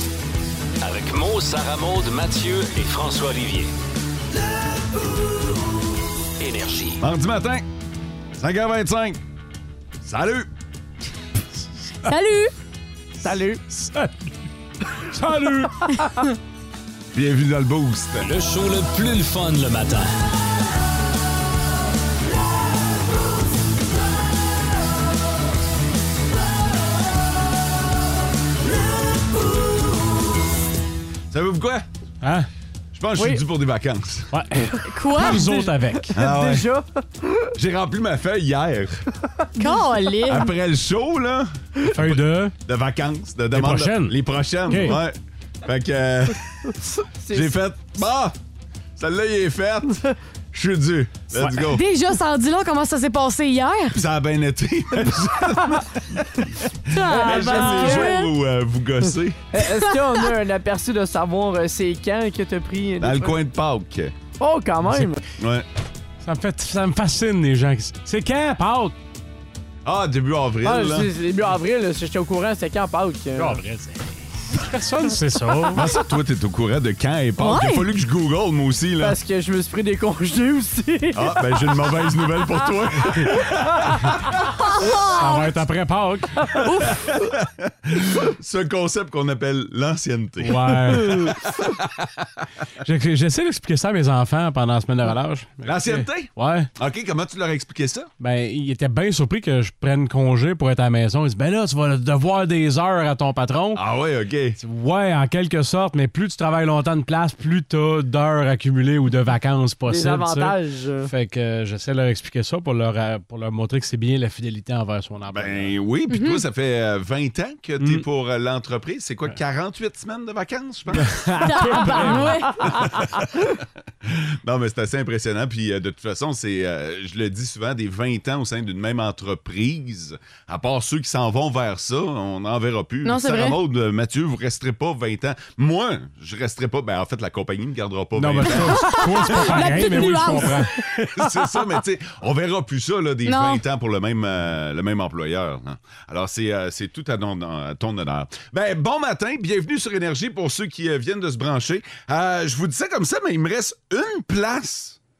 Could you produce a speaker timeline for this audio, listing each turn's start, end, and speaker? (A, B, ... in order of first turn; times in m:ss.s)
0:00.8-0:03.7 A
0:06.4-0:07.0 A
0:07.0-0:07.6 B
0:08.4-0:09.2 B
0:10.0-0:10.5 B
0:12.0-0:12.5 C
0:13.2-0:13.6 D
0:13.7-0:14.1 E
0:15.0-0:16.2 E
0:17.1-0:18.3 B
0:18.2-0:20.1 A
0:31.3-0:31.8 B
0:32.2-0:32.5 E
0:32.9-0:34.3 B
0:33.2-0:33.4 D
0:34.3-0:36.2 E
0:34.7-0:36.9 D
0:34.9-0:35.4 C
0:36.1-0:36.7 B
0:37.6-0:39.0 B
0:39.6-0:40.5 C
0:40.2-0:46.7 B
0:41.9-0:42.5 E
0:43.5-0:45.0 E
0:47.0-0:47.5 D
0:47.3-0:48.4 B
0:49.0-0:51.8 B
0:51.5-0:54.0 C
0:53.9-0:59.4 B
0:56.9-0:58.3 C
0:57.1-0:58.2 D
0:59.5-1:03.4 D
1:03.0-1:04.1 B
1:04.4-1:05.2 D
1:05.4-1:05.6 B
1:06.2-1:08.9 E
1:09.8-1:11.1 B
1:10.6-1:13.6 D
1:13.4-1:15.8 E
1:15.7-1:19.1 B
1:17.4-1:17.8 C
1:19.0-1:21.7 D
1:21.1-1:24.2 B
1:24.8-1:25.4 C
1:25.2-1:26.3 E
1:26.7-1:32.2 B
1:30.4-1:31.3 E
1:32.8-1:36.7 E
1:35.6-1:38.1 B
1:38.2-1:43.8 E
1:43.7-1:44.6 B
1:44.6-1:55.7 E
1:49.9-1:51.1 D
1:55.3-2:03.2 B
1:56.1-1:56.4 C
1:57.8-1:58.0 E
2:01.0-2:02.4 E
2:01.4-2:02.6 C
2:04.0-2:19.8 B
2:13.0-2:13.6 C
2:18.2-2:20.9 E
2:18.6-2:20.7 C
2:21.1-2:35.0 B
2:23.2-2:23.6 C